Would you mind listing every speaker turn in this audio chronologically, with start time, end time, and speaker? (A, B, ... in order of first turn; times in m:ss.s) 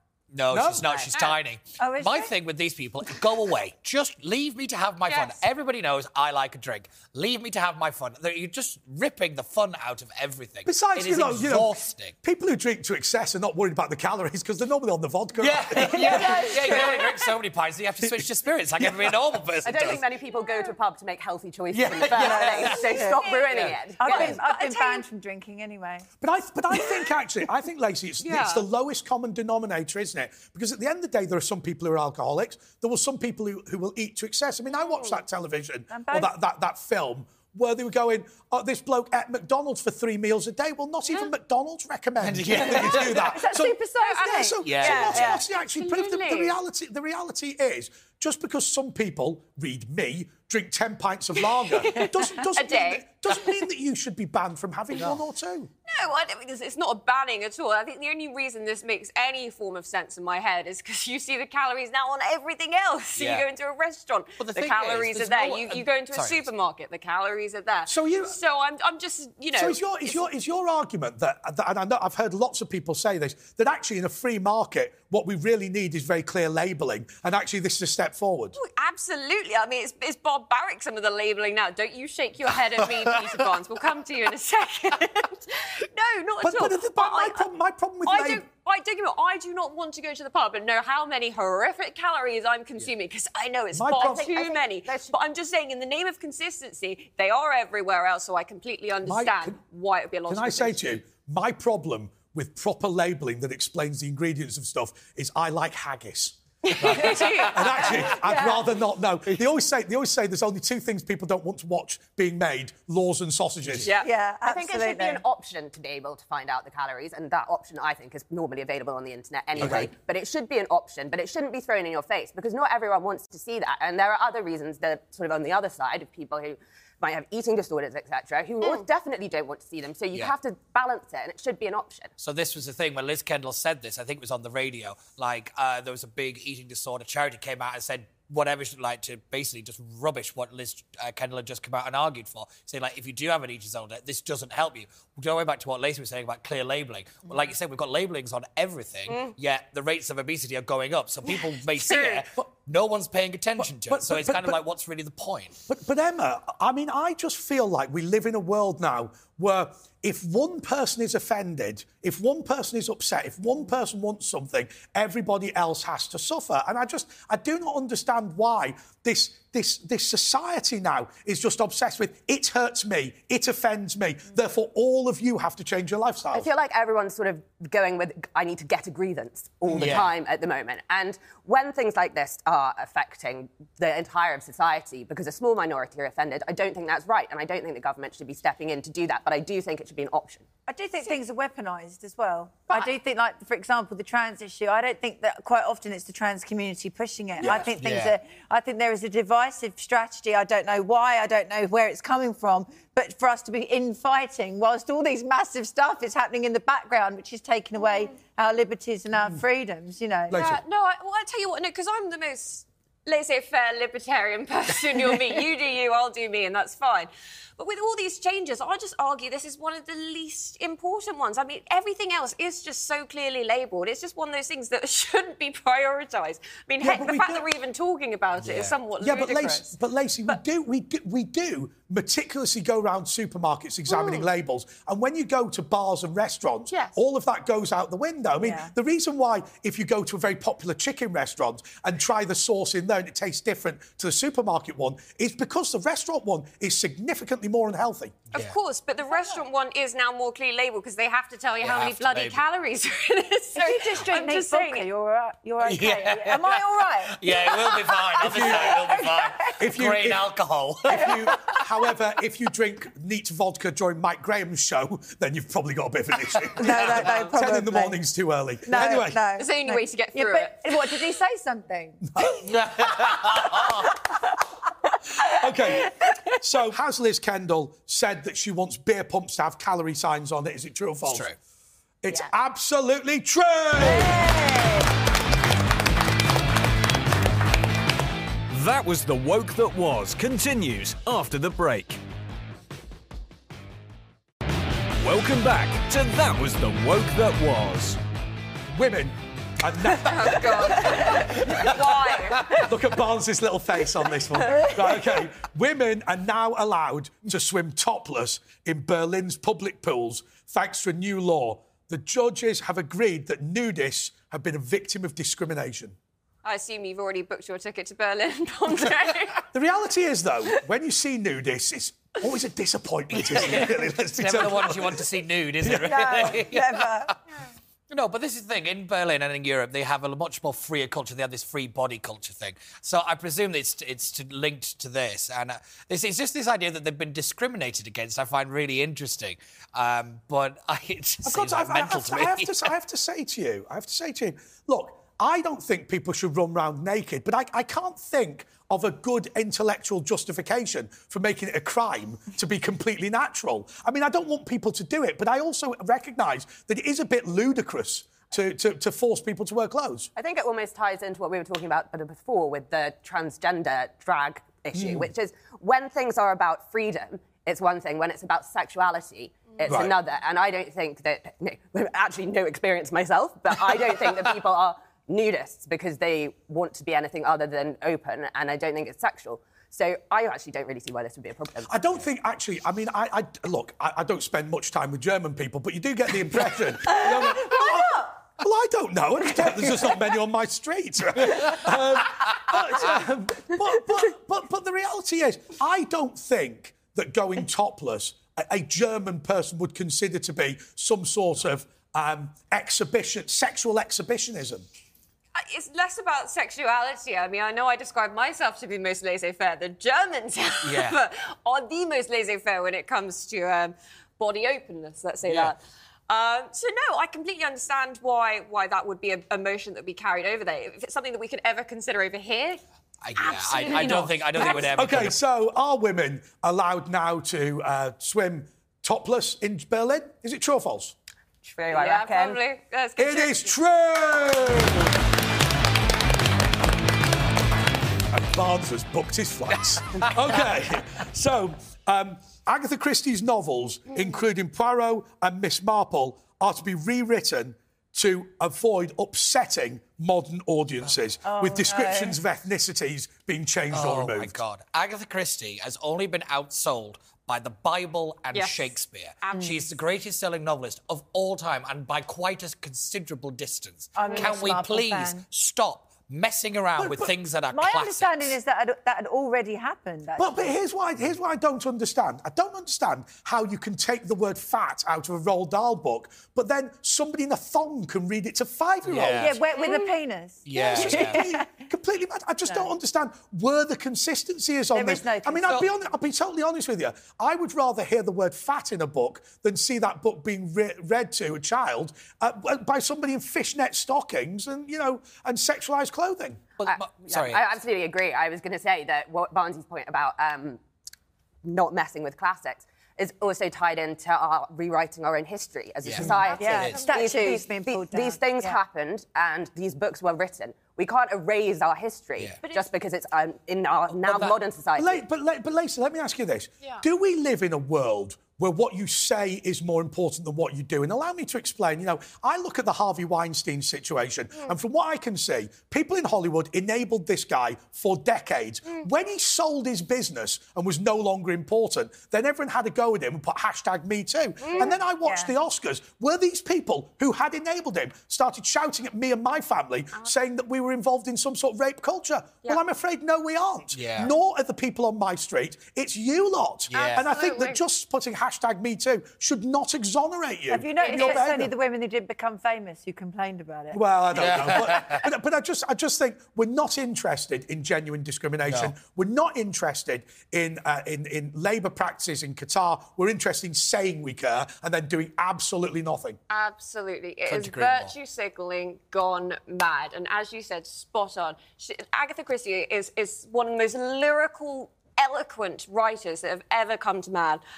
0:00.3-0:12.1 A
0:00.5-0:01.0 B
0:01.8-0:02.3 C
0:05.1-0:05.4 D
0:10.6-0:17.0 B
0:15.4-0:20.0 A
0:15.8-0:17.0 C
0:18.0-0:18.2 B
0:18.8-0:19.1 B
0:19.6-0:24.6 E
0:21.7-0:24.3 A
0:22.1-0:23.4 C
0:24.0-0:26.1 C
0:24.4-0:25.0 D
0:26.2-0:55.7 B
0:28.2-0:28.6 D
0:35.9-0:36.3 C
0:42.2-0:43.3 A
0:42.6-0:44.6 C
0:44.2-0:46.6 D
0:44.6-0:45.4 A
0:51.4-0:53.6 D
0:55.9-1:10.2 D
1:03.2-1:03.4 A
1:04.4-1:06.4 A
1:07.8-1:08.4 B
1:09.6-1:18.6 B
1:18.6-1:27.5 D
1:26.4-1:28.4 B
1:28.0-1:41.0 D
1:33.7-1:34.3 B
1:34.1-1:35.1 E
1:39.0-1:39.6 B
1:40.3-1:53.9 B
1:46.8-1:48.2 D
1:47.0-1:48.6 C
1:54.0-1:55.2 C
1:54.4-2:12.1 E
1:59.6-1:59.8 A
1:59.6-1:59.9 B
2:12.2-2:35.6 A
2:29.1-2:29.3 D
2:31.8-2:32.2 D
2:33.6-2:34.6 B
2:35.7-2:56.5 B
2:56.3-3:10.4 E
2:59.7-3:00.1 A
3:10.7-3:30.4 C
3:17.4-3:18.1 A
3:30.3-3:30.6 B
3:30.3-3:49.7 D
3:46.8-3:47.5 B
3:48.4-3:48.8 A
3:49.0-4:08.3 B
3:53.9-3:54.2 D
3:56.7-3:57.0 D
3:58.4-3:58.7 C
4:08.3-4:14.9 D
4:11.6-4:12.4 A
4:13.6-4:19.5 C
4:15.6-4:21.3 A
4:18.2-4:18.8 B
4:19.6-4:29.2 B
4:20.9-4:21.6 C
4:26.6-4:28.0 C
4:28.6-4:32.3 C
4:29.3-4:31.0 D
4:32.1-4:33.5 B
4:32.3-4:33.9 A
4:35.2-4:36.3 C
4:35.2-4:41.3 B
4:41.0-4:41.4 A
4:42.0-4:44.3 B
4:43.7-4:44.9 C
4:48.5-4:52.0 F
4:55.0-4:58.0 F
4:58.7-5:16.0 B
5:00.0-5:02.7 D
5:16.4-5:19.4 D
5:19.5-5:25.1 B
5:23.2-5:27.1 A
5:25.6-5:26.4 B
5:25.8-5:27.2 C
5:27.9-5:42.7 A
5:41.2-6:00.1 B
6:00.2-6:21.9 E
6:04.7-6:05.1 B
6:09.7-6:10.0 B
6:21.6-6:44.6 B
6:26.9-6:28.1 C
6:45.4-7:02.6 D
6:50.6-6:51.0 A
6:55.3-6:55.5 A
7:03.0-7:05.2 A
7:03.1-7:04.7 D
7:04.3-7:10.9 B
7:11.4-7:12.4 E
7:11.7-7:13.6 D
7:13.0-7:15.0 B
7:18.1-7:34.4 B
7:31.2-7:32.2 C
7:33.7-7:48.3 A
7:38.3-7:39.6 D
7:44.0-7:45.2 C
7:46.8-7:47.1 B
7:47.5-7:50.5 C
7:50.2-7:59.3 B
7:58.8-7:59.4 A
7:59.2-8:01.5 C
7:59.5-7:59.9 D
8:00.4-8:01.3 A
8:00.7-8:16.4 B
8:04.7-8:05.7 C
8:16.6-8:17.5 A
8:16.6-8:20.6 E
8:21.4-8:35.0 E
8:25.8-8:26.8 A
8:26.0-8:27.3 D
8:26.4-8:28.6 C
8:32.4-8:32.7 D
8:33.9-8:34.4 A
8:34.8-9:11.5 B
8:54.4-8:54.8 D
8:54.6-8:55.3 C
9:03.7-9:04.1 A
9:06.7-9:07.1 A
9:06.7-9:07.6 D
9:10.5-9:13.8 C
9:10.8-9:11.2 D
9:13.7-9:26.2 B
9:14.1-9:15.0 A
9:26.3-9:37.4 D
9:27.2-9:27.9 A